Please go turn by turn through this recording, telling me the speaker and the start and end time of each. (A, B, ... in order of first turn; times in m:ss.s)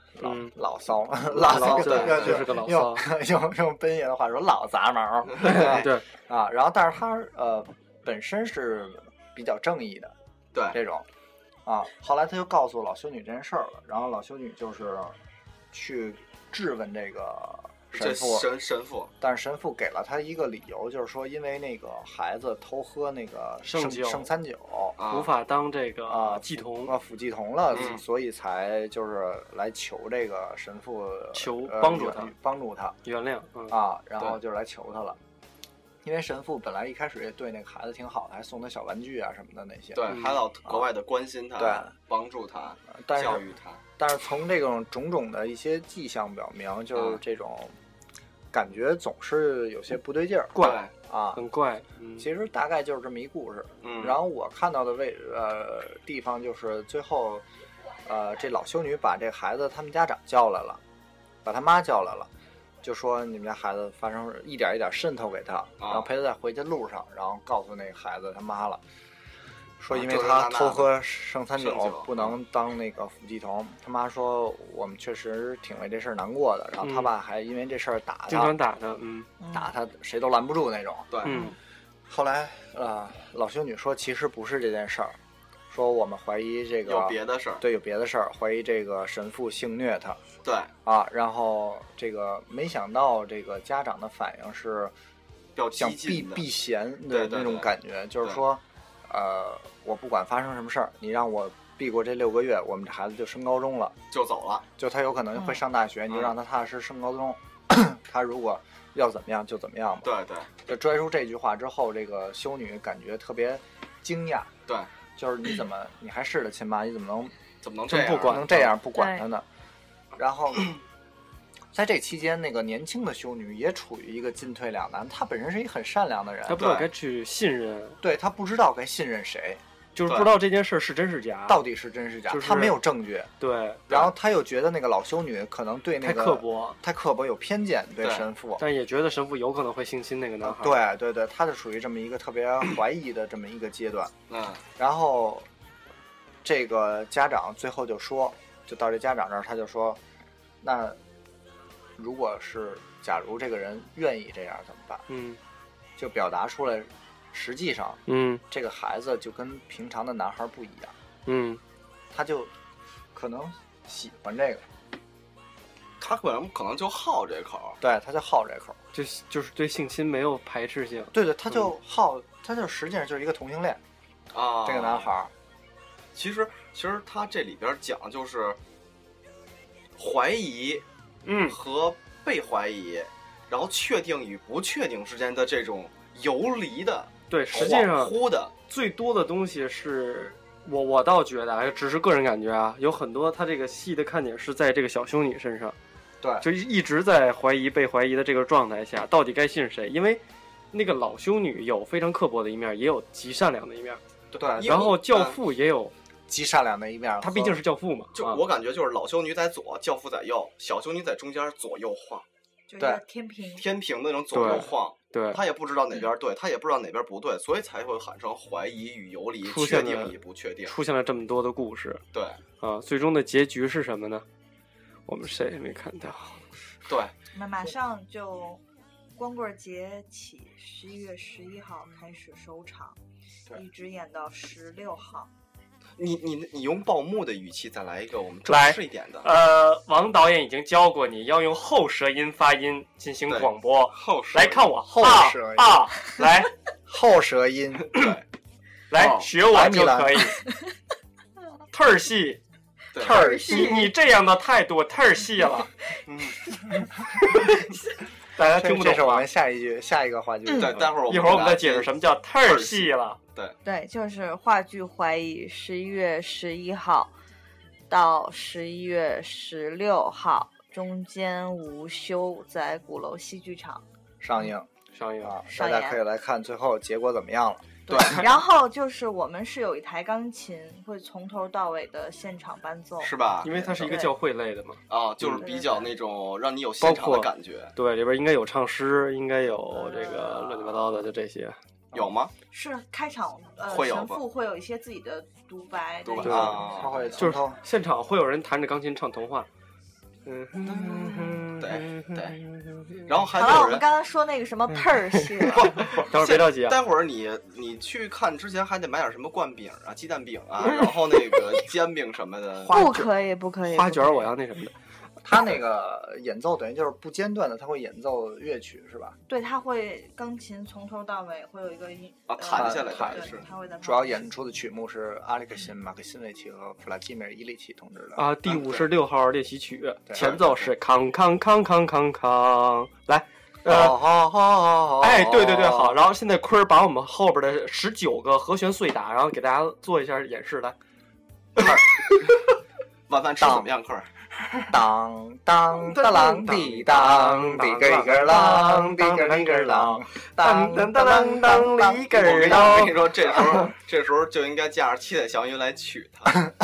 0:00.1-0:10.1 A
0:00.2-0:00.5 B
0:01.3-0:02.5 C
0:01.3-0:03.1 B
0:05.4-0:06.0 B
0:05.4-0:05.8 C
0:10.5-0:10.8 C
0:10.7-0:11.0 A
0:11.6-0:15.2 A
0:15.7-0:18.5 A
0:17.9-0:19.1 C
0:19.2-0:25.0 A
0:23.6-0:24.3 B
0:25.0-0:25.3 C
0:25.1-0:27.0 B
0:26.1-0:33.0 A
0:27.7-0:28.0 C
0:31.3-0:32.3 B
0:33.0-0:33.8 B
0:33.7-0:35.2 A
0:36.0-0:40.9 A
0:39.9-0:43.8 C
0:40.1-0:40.4 B
0:41.6-0:41.9 A
0:42.9-0:47.7 A
0:46.9-0:47.2 C
0:48.5-0:51.4 A
0:50.5-0:50.8 B
0:50.6-0:50.9 C
0:51.3-0:52.2 B
0:52.2-0:57.4 A
0:53.8-0:54.2 C
0:58.0-1:00.8 A
1:01.4-1:02.3 A
1:02.8-1:08.8 A
1:05.8-1:06.1 C
1:09.8-1:18.5 A
1:09.9-1:10.9 C
1:11.6-1:12.4 C
1:16.8-1:17.1 B
1:18.3-1:19.3 B
1:19.4-1:19.7 D
1:19.5-1:21.1 A
1:21.1-1:21.4 C
1:21.2-1:21.5 B
1:22.1-1:25.2 A
1:25.7-1:30.2 A
1:26.8-1:27.6 C
1:30.4-1:30.7 C
1:30.8-1:34.9 A
1:35.6-1:36.4 C
1:35.8-1:44.0 A
1:37.1-1:37.7 C
1:44.1-1:44.6 C
1:44.8-1:50.1 A
1:45.4-1:45.6 D
1:50.0-1:50.5 C
1:50.6-1:54.5 A
1:55.2-1:57.3 A
1:57.6-1:58.6 C
1:57.9-1:58.7 B
1:57.9-1:59.4 A
1:58.9-1:59.2 D
2:00.2-2:00.7 A
2:01.7-2:06.6 A
2:06.4-2:08.0 B
2:06.6-2:06.9 C
2:08.0-2:09.6 A
2:10.0-2:11.6 B
2:10.0-2:10.4 C
2:11.5-2:13.3 A
2:12.3-2:12.8 B
2:13.4-2:14.1 B
2:13.9-2:18.6 A
2:16.0-2:16.8 B
2:18.0-2:18.3 C
2:18.6-2:20.8 B
2:20.4-2:24.1 A
2:24.3-2:24.6 C
2:24.8-2:25.5 A
2:26.4-2:30.0 A
2:30.6-2:31.0 A
2:32.0-2:35.0 A
2:35.1-2:35.4 B
2:36.0-2:41.0 A
2:38.1-2:38.4 B
2:41.2-2:41.6 B
2:42.1-2:42.5 A
2:43.1-2:44.6 A
2:46.0-2:47.8 C
2:47.8-2:48.8 A
2:48.9-2:51.7 B
2:51.1-2:53.8 A
2:54.3-2:55.1 C
2:54.6-2:55.3 A
2:56.1-2:58.6 C
3:00.0-3:00.8 C
3:01.2-3:01.6 B
3:01.5-3:08.5 C
3:07.3-3:15.8 B
3:16.2-3:16.4 A
3:16.4-3:24.0 B
3:24.3-3:25.4 C
3:24.4-3:24.9 A
3:24.6-3:25.9 B
3:26.3-3:27.6 A
3:27.2-3:28.4 B
3:28.1-3:32.2 C
3:32.7-3:33.7 D
3:33.5-3:40.7 C
3:34.3-3:35.4 B
3:39.4-3:42.0 B
3:42.1-3:42.4 C
3:42.6-3:44.2 B
3:45.1-3:46.4 B
3:46.9-3:47.1 C
3:47.3-3:48.6 D
3:49.2-3:53.0 D
3:53.5-3:55.3 D
3:56.0-3:59.3 C
3:58.5-4:06.5 B
4:03.3-4:04.7 C
4:04.9-4:06.2 A
4:06.9-4:08.0 A
4:07.9-4:08.2 C
4:08.9-4:10.4 B
4:08.9-4:09.3 C
4:09.4-4:10.4 A
4:11.7-4:12.4 B
4:12.9-4:13.4 C
4:13.0-4:13.7 A
4:13.0-4:15.7 B
4:13.0-4:13.9 D
4:16.1-4:16.4 C
4:18.4-4:19.2 B
4:18.5-4:20.9 A
4:20.6-4:23.6 C
4:21.0-4:23.2 B
4:23.6-4:27.1 D
4:27.9-4:33.8 D
4:34.2-4:34.7 A
4:34.9-4:35.4 B
4:35.2-4:38.3 A
4:35.5-4:36.0 D
4:37.9-4:43.1 D
4:37.9-4:38.2 C
4:43.0-4:44.0 C
4:43.4-4:45.4 B
4:43.8-4:44.1 D
4:44.9-4:47.7 C
4:45.4-4:46.0 D
4:46.8-4:51.6 B
4:49.7-4:50.5 D
4:51.9-4:52.3 C
4:52.5-4:56.8 D
4:53.6-4:54.2 C
4:56.0-4:57.2 C
4:56.2-4:56.6 B
4:56.2-4:57.6 A
4:57.2-4:59.5 B
5:00.2-5:03.1 B
5:00.7-5:02.4 C
5:03.0-5:03.9 C
5:03.3-5:05.8 D
5:05.1-5:06.8 B
5:05.5-5:12.8 C
5:12.6-5:14.3 D
5:12.7-5:13.1 B
5:13.7-5:14.7 B
5:15.2-5:19.2 A
5:19.3-5:24.2 D
5:22.3-5:23.5 C
5:22.5-5:28.3 A
5:28.1-5:34.0 B
5:28.4-5:28.9 C
5:30.2-5:30.7 C
5:33.6-5:36.0 A
5:35.0-5:40.8 B
5:43.1-5:44.8 C
5:43.4-5:43.7 A
5:44.7-5:52.1 A
5:45.7-5:53.7 B
5:52.1-5:56.4 C